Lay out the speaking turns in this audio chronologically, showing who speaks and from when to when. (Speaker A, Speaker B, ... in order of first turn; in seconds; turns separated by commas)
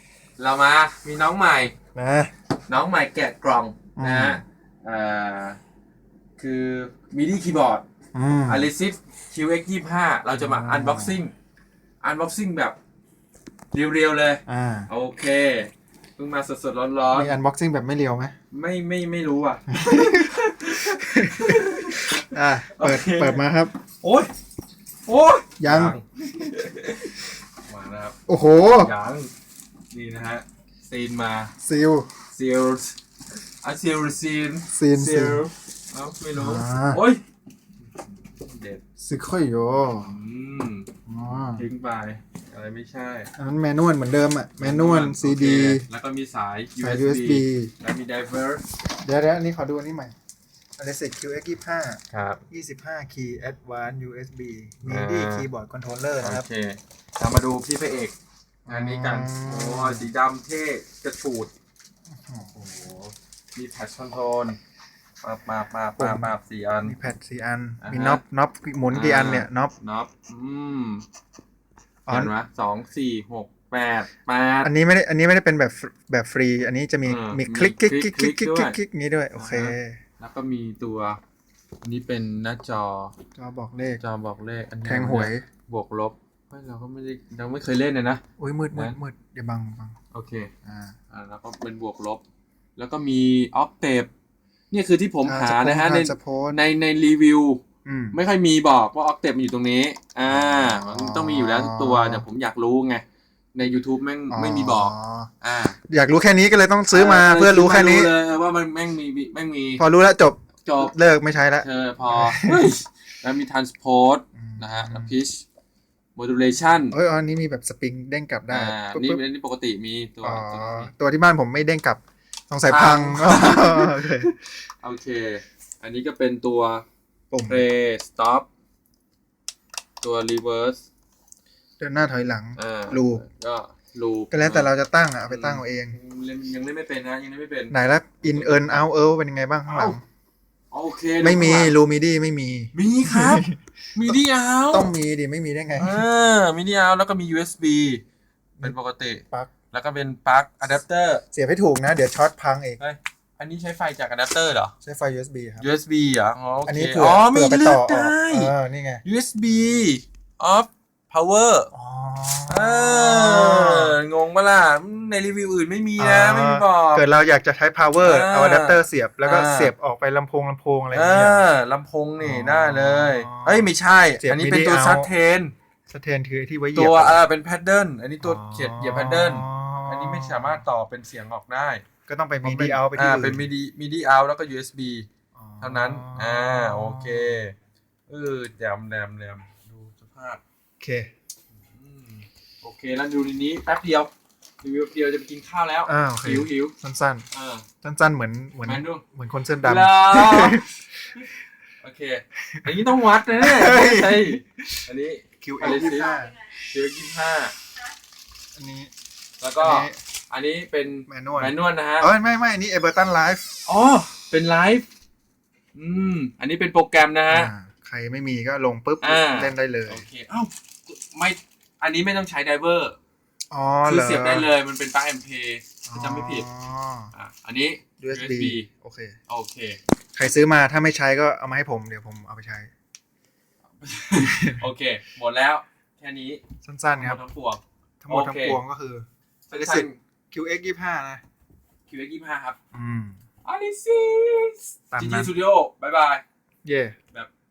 Speaker A: 0.4-1.7, Speaker B: 1.9-2.3, Speaker A: 2.7-5.6, Speaker B: 4.0-4.4, Speaker A: 6.4-7.8, Speaker B: 8.1-8.7, Speaker A: 8.5-11.3, Speaker B: 10.3-11.2, Speaker A: 12.0-12.8, Speaker A: 13.7-17.3, Speaker B: 14.5-14.9, Speaker B: 17.1-18.3, Speaker A: 18.5-23.4, Speaker B: 19.7-20.3, Speaker B: 20.9-23.7, Speaker A: 24.0-24.3, Speaker A: 25.1-28.1, Speaker B: 25.6-26.0, Speaker B: 28.3-28.9, Speaker A: 28.8-29.3, Speaker A: 29.9-31.5, Speaker B: 31.6-32.1, Speaker A: 32.3-33.0, Speaker A: 33.6-37.2, Speaker B: 34.7-35.4, Speaker B: 36.4-37.0, Speaker A: 38.4-38.8, Speaker B: 39.0-40.1, Speaker A: 39.9-40.9, Speaker B: 41.1-41.6, Speaker A: 41.5-43.3, Speaker B: 43.4-45.9, Speaker A: 44.6-48.6, Speaker B: 46.8-47.7, Speaker B: 49.0-50.1, Speaker B: 50.8-56.4, Speaker A: 52.1-52.4, Speaker A: 54.9-55.5, Speaker A: 56.2-58.1, Speaker B: 58.6-60.1, Speaker A: 58.7-61.5, Speaker B: 62.2-62.5, Speaker A: 62.5-64.6, Speaker A: 65.2-66.9, Speaker B: 66.0-69.7, Speaker A: 67.8-68.2, Speaker A: 68.9-71.0, Speaker B: 72.1-72.3, Speaker A: 72.1-74.7, Speaker B: 74.6-80.0, Speaker A: 77.0-78.8, Speaker A: 79.3-81.2, Speaker A: 81.8-83.1, Speaker B: 83.4-84.0, Speaker A: 84.0-88.2, Speaker B: 84.8-85.4, Speaker B: 88.4-90.0, Speaker A: 90.1-90.5, Speaker B: 90.6-91.0, Speaker A: 91.1-92.2, Speaker A: 92.8-94.1, Speaker A: 94.7-97.6, Speaker B: 95.2-96.6, Speaker B: 97.8-98.2, Speaker A: 98.1-103.0, Speaker B: 100.3-102.2, Speaker A: 103.5-105.8, Speaker B: 104.3-105.3, Speaker B: 105.9-108.1, Speaker A: 106.9-109.8, Speaker B: 109.8-112.6, Speaker A: 110.6-110.9, Speaker A: 111.6-115.4, Speaker B: 114.4-115.1, Speaker A: 116.2-116.9, Speaker B: 116.9-119.2, Speaker A: 118.5-120.9, Speaker B: 120.2-124.3, Speaker A: 122.7-126.8, Speaker B: 127.3-127.6, Speaker A: 127.5-128.5, Speaker A: 130.0-130.8, Speaker B: 131.8-133.2, Speaker A: 132.6-134.7, Speaker B: 134.3-135.9, Speaker A: 135.3-138.8, Speaker B: 137.7-140.0, Speaker A: 139.7-140.0, Speaker A: 140.7-141.7, Speaker B: 141.2-144.2, Speaker A: 142.7-144.9, Speaker B: 144.7-146.0, Speaker A: 145.8-148.0, Speaker A: 148.6-151.2, Speaker B: 151.3-152.8, Speaker A: 152.8-154.7, Speaker B: 154.8-155.7, Speaker A: 155.6-158.5, Speaker B: 156.7-159.0, Speaker A: 159.0-161.7, Speaker B: 161.7-163.9, Speaker A: 162.5-167.0, Speaker B: 166.0-171.4, Speaker A: 168.0-169.7, Speaker A: 170.9-175.5, Speaker B: 172.2-175.1, Speaker B: 175.9-177.2, Speaker A: 176.7-181.8, Speaker B: 178.2-180.6, Speaker B: 182.1-183.5, Speaker A: 182.4-185.1, Speaker B: 185.3-187.4, Speaker A: 185.6-187.5, Speaker A: 188.1-190.4, Speaker B: 190.8-191.1, Speaker A: 191.7-194.1, Speaker A: 194.6-196.7, Speaker B: 195.8-197.2, Speaker A: 197.3-197.7, Speaker B: 197.8-200.8, Speaker A: 198.6-199.0, Speaker A: 199.6-207.5, Speaker B: 203.3-204.9, Speaker B: 205.4-206.4, Speaker B: 208.6-208.9, Speaker A: 209.4-212.1, Speaker B: 209.6-209.9, Speaker B: 211.1-213.5, Speaker A: 213.7-214.8, Speaker A: 215.7-217.5, Speaker B: 217.3-220.0, Speaker A: 219.0-223.0, Speaker B: 223.5-224.5, Speaker A: 223.8-226.5, Speaker B: 225.8-227.1, Speaker A: 227.1-228.7, Speaker B: 228.0-229.1, Speaker A: 229.3-229.8, Speaker B: 230.1-232.7, Speaker A: 233.8-236.4, Speaker B: 234.2-234.6, Speaker B: 236.6-237.2, Speaker A: 236.9-238.6, Speaker B: 238.0-241.2, Speaker A: 239.5-240.0, Speaker A: 241.9-242.6, Speaker B: 242.7-243.2, Speaker A: 243.4-246.2, Speaker B: 244.9-245.3, Speaker B: 246.6-247.0